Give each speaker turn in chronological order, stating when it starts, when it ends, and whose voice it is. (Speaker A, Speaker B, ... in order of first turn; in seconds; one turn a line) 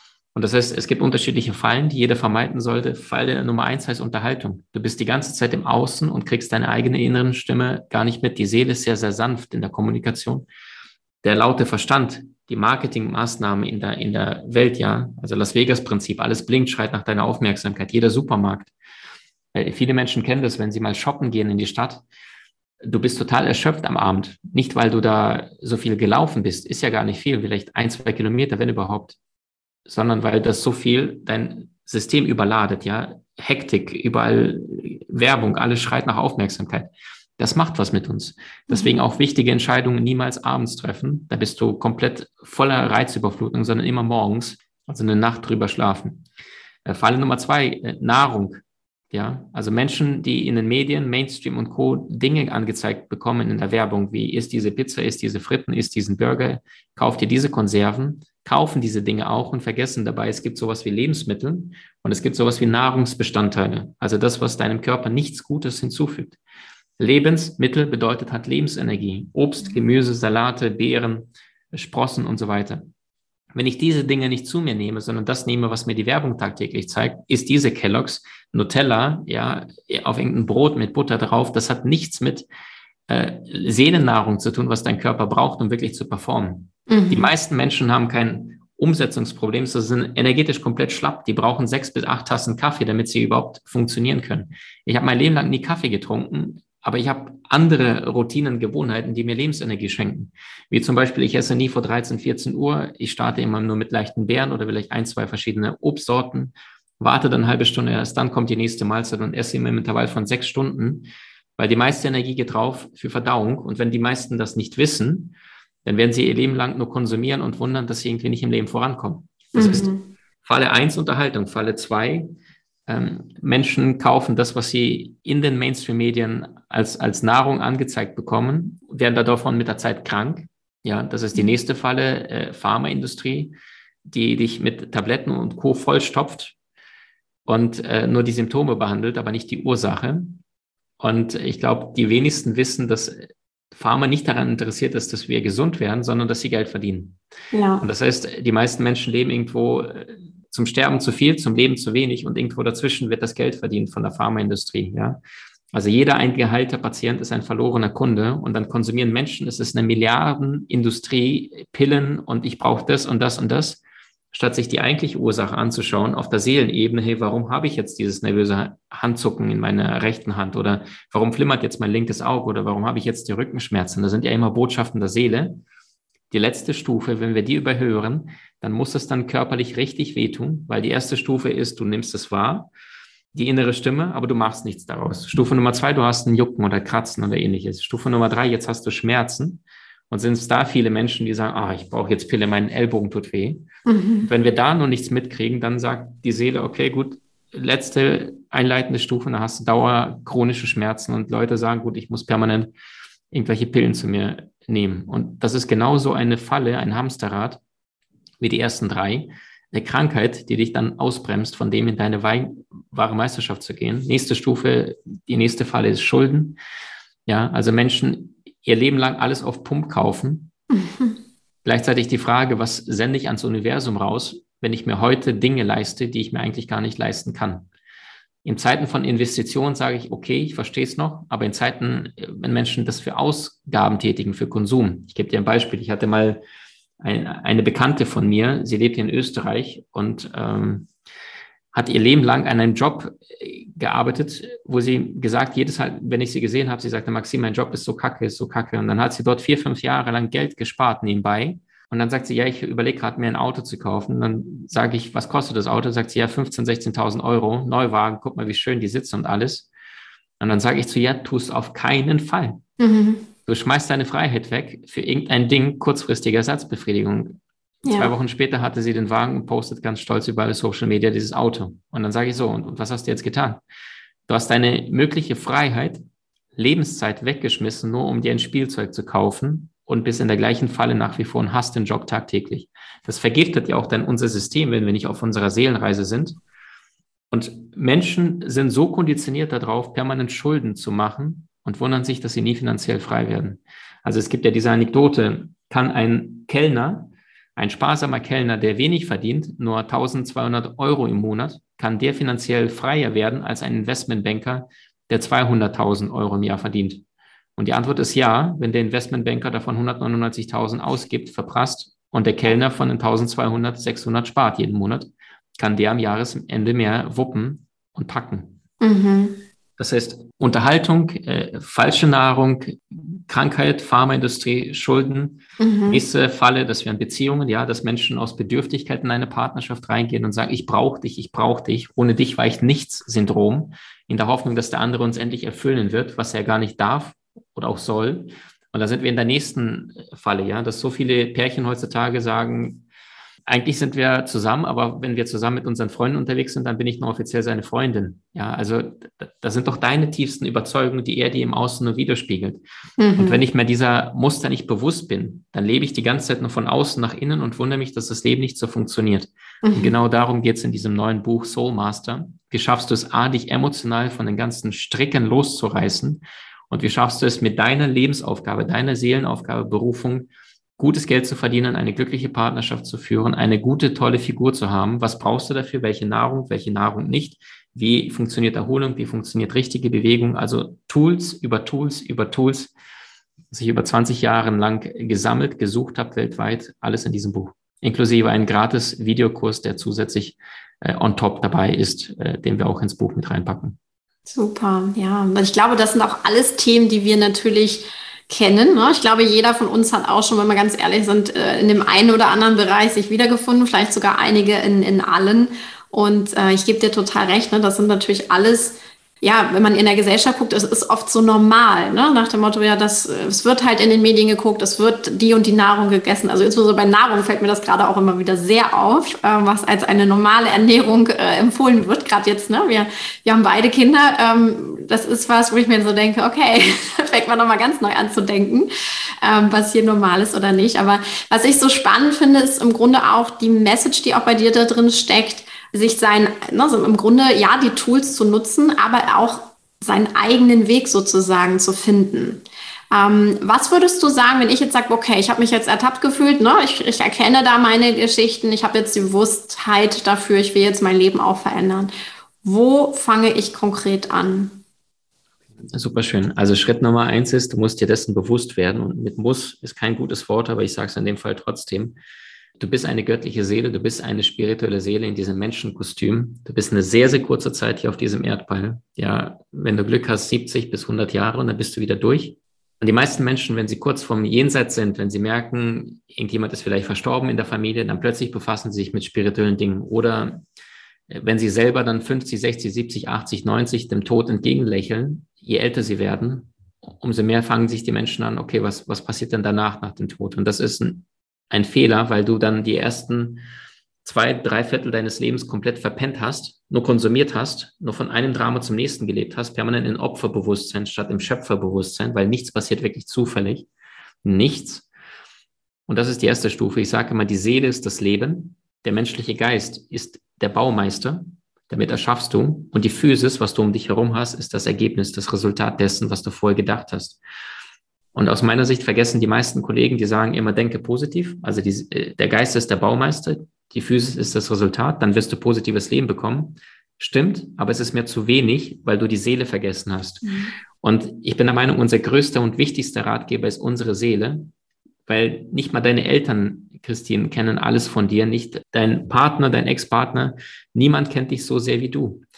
Speaker A: 0.3-10.5
Speaker A: 11.2-18.7
Speaker A: 19.5-22.0
Speaker A: 22.8-29.2
Speaker A: 29.9-46.2
Speaker A: 46.8-66.4
Speaker A: 67.0-72.9
Speaker A: 73.5-82.5
Speaker A: 83.1-119.9
Speaker B: 86.9-87.3
Speaker B: 119.5-120.1
Speaker A: 120.4-122.3
Speaker A: 122.9-133.5
Speaker A: 134.1-136.5
Speaker A: 137.4-140.4
Speaker A: 141.0-147.2
Speaker B: 147.5-147.8
Speaker A: 147.8-155.2
Speaker A: 155.7-163.8
Speaker A: 164.3-175.6
Speaker A: 176.3-182.7
Speaker A: 183.3-193.7
Speaker B: 193.8-194.3
Speaker A: 194.2-202.7
Speaker A: 203.3-207.6
Speaker A: 208.4-216.6
Speaker A: 217.2-220.5
Speaker B: 220.7-221.2
Speaker A: 221.6-227.7
Speaker A: 228.4-236.4
Speaker A: 237.0-240.9
Speaker A: 241.7-259.7
Speaker A: 260.4-262.6
Speaker B: 262.8-263.3
Speaker A: 263.5-273.6
Speaker B: 267.8-268.1
Speaker A: 274.3-276.0
Speaker A: 276.6-286.4
Speaker A: 287.3-307.0
Speaker A: 307.6-318.6
Speaker B: 318.8-319.4
Speaker A: 319.8-342.8
Speaker B: 325.6-326.0
Speaker A: 343.5-352.6
Speaker B: 353.0-353.4
Speaker A: 353.2-382.7
Speaker B: 359.6-359.9
Speaker A: 383.5-393.8
Speaker B: 394.3-428.7
Speaker B: 429.2-451.9
Speaker B: 452.4-454.6
Speaker A: 455.7-462.0
Speaker A: 462.6-480.4
Speaker A: 481.1-493.4
Speaker A: 494.0-503.7
Speaker A: 504.2-504.9
Speaker A: 505.9-517.2
Speaker A: 518.1-534.5
Speaker B: 530.2-530.5
Speaker A: 535.0-542.2